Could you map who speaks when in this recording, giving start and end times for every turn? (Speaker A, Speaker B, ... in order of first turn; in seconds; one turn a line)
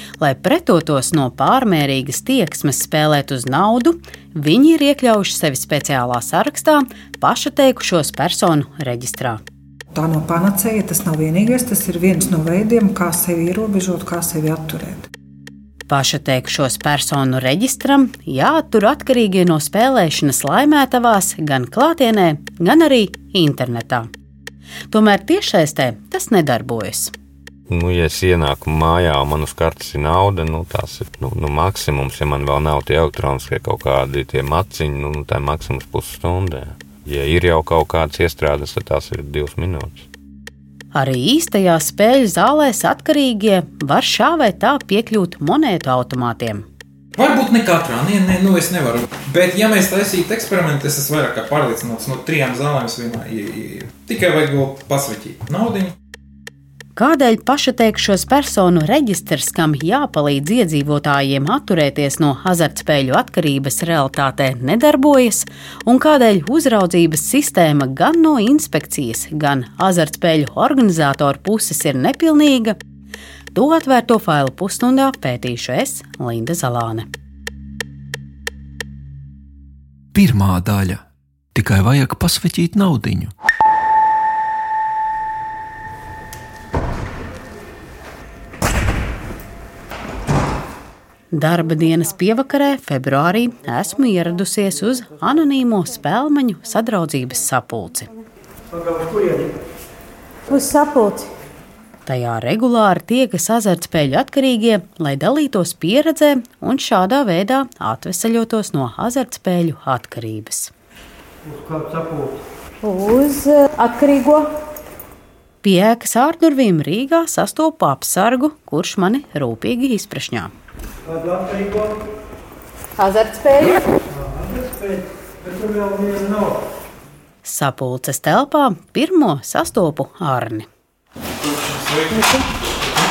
Speaker A: 0.2-9.4
Speaker B: 9.9-15.1
Speaker A: 15.9-24.1
Speaker A: 24.9-27.1
Speaker C: 27.7-40.1
Speaker A: 40.9-46.6
Speaker D: 47.1-55.9
Speaker A: 57.0-72.8
Speaker A: 73.5-77.1
Speaker E: 80.1-81.0
Speaker E: 81.5-83.3
Speaker A: 91.3-98.1
Speaker F: 100.5-101.3
Speaker A: 102.0-110.7
Speaker F: 112.8-113.7
Speaker A: 113.8-114.3
Speaker A: 115.6-120.5
Speaker F: 123.0-123.7
Speaker A: 127.4-130.7
Speaker D: 131.4-132.3